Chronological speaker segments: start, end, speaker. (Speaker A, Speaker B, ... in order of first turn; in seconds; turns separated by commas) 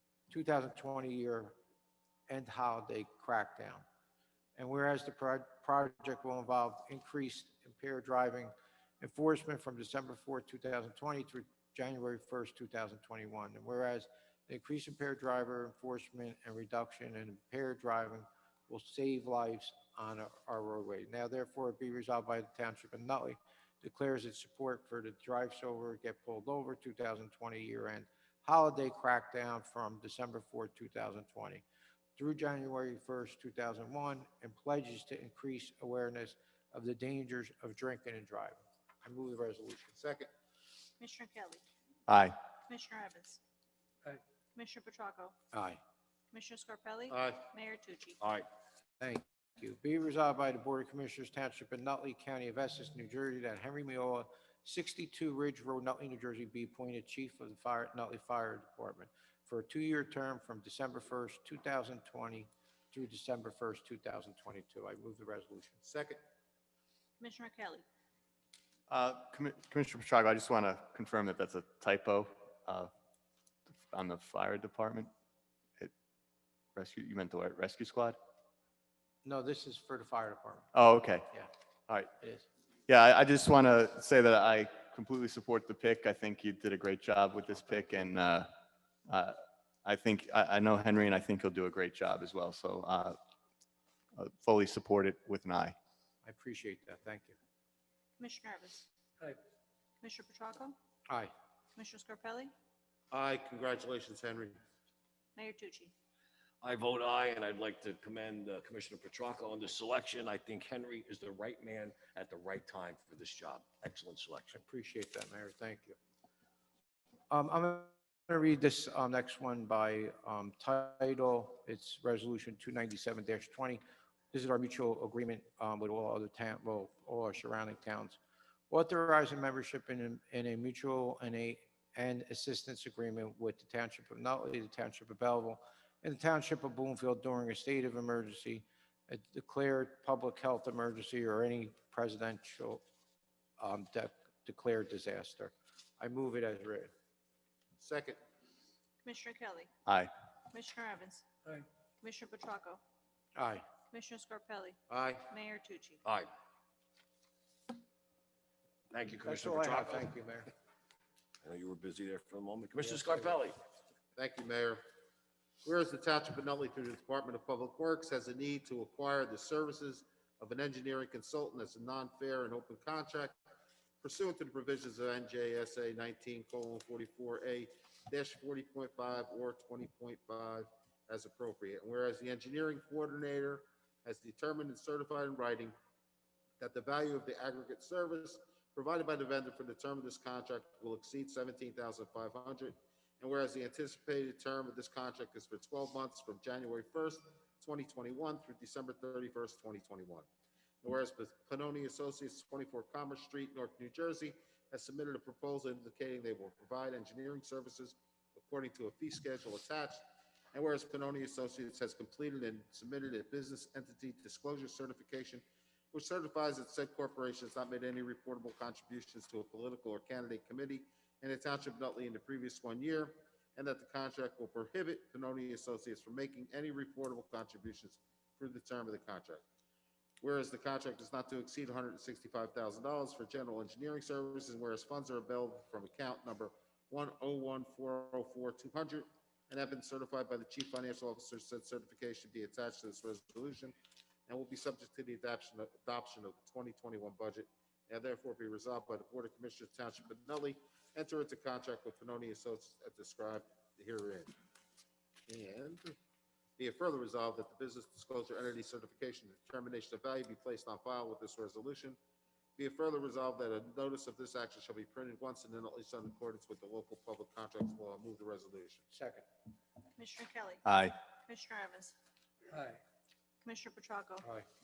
Speaker A: 0.3-1.6, Speaker A: 2.3-3.8, Speaker A: 4.6-31.6, Speaker A: 32.1-39.9, Speaker B: 40.0-40.3, Speaker C: 41.0-41.6, Speaker D: 42.1-42.4, Speaker C: 42.7-43.4, Speaker C: 44.5-45.4, Speaker A: 45.5-45.8, Speaker C: 46.3-48.2, Speaker B: 47.1-47.5, Speaker E: 48.2-48.5, Speaker A: 49.0-65.8, Speaker B: 65.8-66.2, Speaker C: 67.2-67.8, Speaker D: 68.9-72.9, Speaker D: 73.7-75.1, Speaker D: 76.8-78.2, Speaker A: 79.2-80.7, Speaker D: 80.7-81.3, Speaker A: 82.2-82.4, Speaker D: 82.9-88.5, Speaker D: 89.1-93.2, Speaker D: 94.2-95.8, Speaker A: 96.2-97.3, Speaker C: 98.2-98.9, Speaker C: 100.0-100.8, Speaker C: 101.8-102.5, Speaker B: 103.1-104.6, Speaker C: 105.3-105.9, Speaker E: 106.6-114.6, Speaker A: 114.5-116.0, Speaker A: 117.3-128.2, Speaker A: 128.7-142.8, Speaker A: 143.6-146.9, Speaker B: 147.8-148.2, Speaker C: 149.0-149.7, Speaker D: 149.8-150.1, Speaker C: 150.5-152.8, Speaker A: 153.3-153.7, Speaker C: 153.9-156.0, Speaker B: 154.9-155.3, Speaker E: 156.0-156.3, Speaker E: 158.9-160.1, Speaker A: 159.2-160.5, Speaker E: 161.4-163.6, Speaker B: 164.2-164.8, Speaker B: 165.6-173.4, Speaker B: 174.0-185.7, Speaker B: 186.6-200.3, Speaker B: 200.8-210.0, Speaker B: 210.5-229.4, Speaker B: 230.2-243.7, Speaker B: 244.3-254.3, Speaker B: 255.3-255.9, Speaker B: 256.6-262.0, Speaker B: 262.6-268.8, Speaker A: 268.9-269.2, Speaker C: 269.9-270.6, Speaker D: 270.6-271.0, Speaker C: 271.2-271.9, Speaker C: 273.4-274.3